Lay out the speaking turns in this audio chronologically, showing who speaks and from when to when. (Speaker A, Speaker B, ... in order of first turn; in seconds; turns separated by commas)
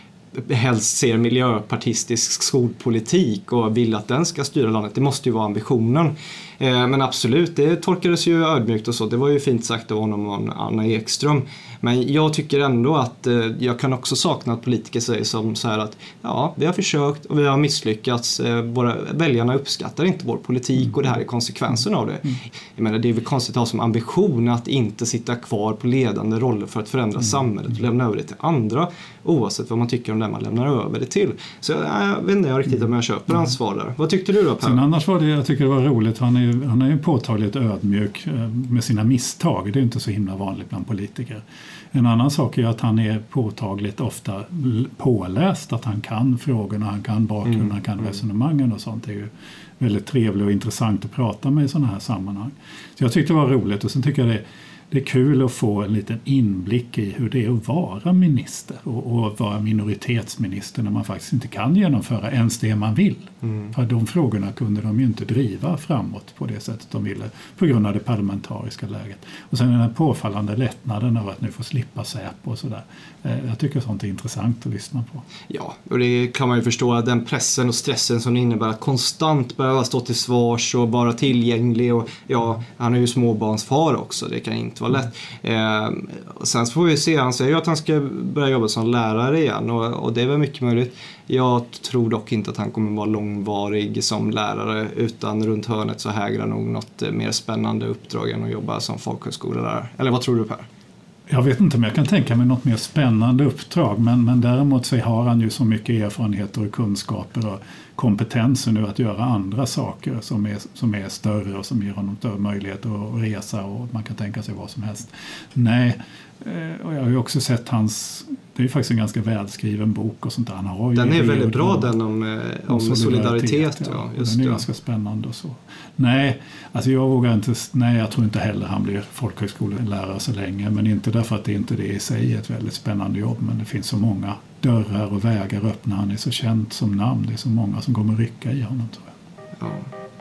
Speaker A: 0.3-34.8, Speaker B: 34.6-75.2, Speaker A: 75.5-100.7, Speaker B: 101.3-121.9, Speaker A: 121.0-124.7, Speaker B: 122.7-139.1, Speaker A: 139.6-139.9